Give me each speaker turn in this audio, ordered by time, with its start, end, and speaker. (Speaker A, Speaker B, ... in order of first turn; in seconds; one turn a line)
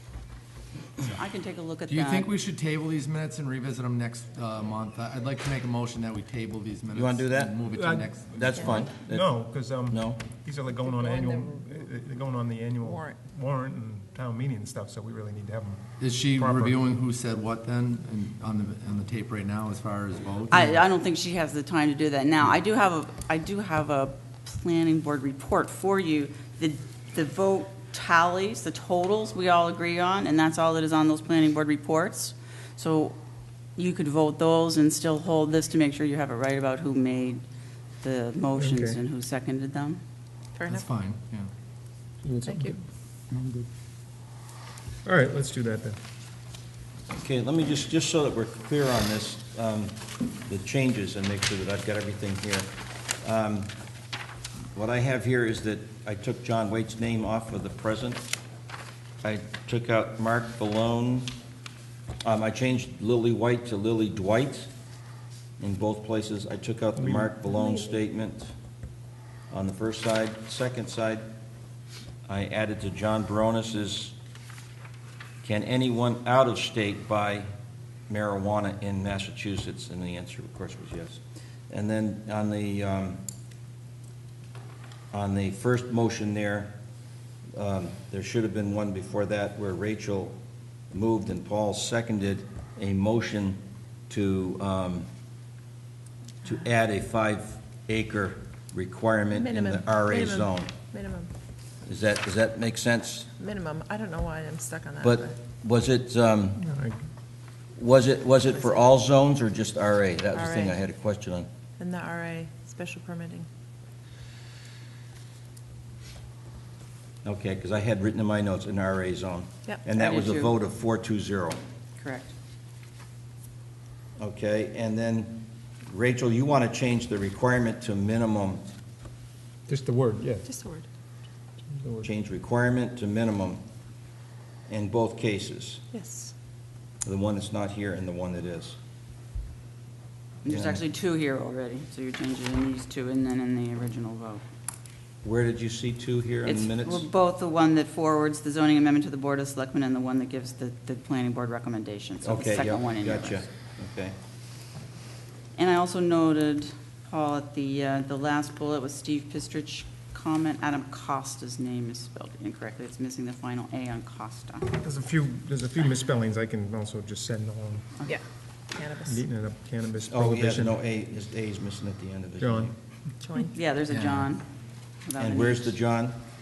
Speaker A: 1.0-2.3
Speaker B: 1.9-8.3
Speaker C: 6.9-7.6
Speaker D: 7.7-16.8
Speaker C: 8.3-9.4
Speaker C: 9.9-10.2
Speaker E: 10.7-11.8
Speaker E: 12.8-13.2
Speaker B: 16.0-20.8
Speaker A: 20.5-33.2
Speaker A: 33.8-37.4
Speaker A: 38.0-40.0
Speaker D: 38.6-39.0
Speaker E: 40.6-40.9
Speaker B: 40.7-41.5
Speaker D: 42.2-42.8
Speaker E: 42.5-42.7
Speaker D: 43.3-43.6
Speaker D: 45.0-46.0
Speaker C: 47.1-52.7
Speaker C: 53.2-53.7
Speaker C: 54.7-58.3
Speaker C: 59.2-61.3
Speaker C: 62.2-64.7
Speaker C: 65.6-68.5
Speaker C: 69.5-71.3
Speaker C: 72.3-74.1
Speaker C: 75.4-77.5
Speaker C: 78.1-83.2
Speaker C: 85.1-86.7
Speaker C: 87.5-90.4
Speaker C: 90.9-95.1
Speaker C: 96.4-100.7
Speaker E: 99.3-101.3
Speaker C: 101.8-103.3
Speaker E: 103.4-105.3
Speaker C: 105.0-106.6
Speaker D: 106.6-107.0
Speaker C: 107.8-111.5
Speaker E: 110.3-110.7
Speaker E: 111.8-113.5
Speaker C: 117.2-121.6
Speaker A: 119.9-120.5
Speaker A: 122.0-122.3
Speaker C: 124.2-128.6
Speaker D: 129.7-130.5
Speaker E: 130.4-130.8
Speaker D: 131.7-132.1
Speaker C: 132.0-133.6
Speaker C: 134.7-135.8
Speaker E: 135.9-136.3
Speaker C: 137.0-138.8
Speaker A: 140.4-144.4
Speaker C: 140.5-140.8
Speaker C: 145.2-147.0
Speaker A: 146.4-153.4
Speaker C: 152.2-154.1
Speaker A: 155.6-164.7
Speaker D: 164.7-167.9
Speaker E: 168.7-169.2
Speaker D: 169.0-170.7
Speaker C: 170.1-172.7
Speaker D: 172.4-172.7
Speaker E: 173.2-173.5
Speaker A: 173.5-174.4
Speaker A: 175.0-175.7
Speaker C: 175.2-176.2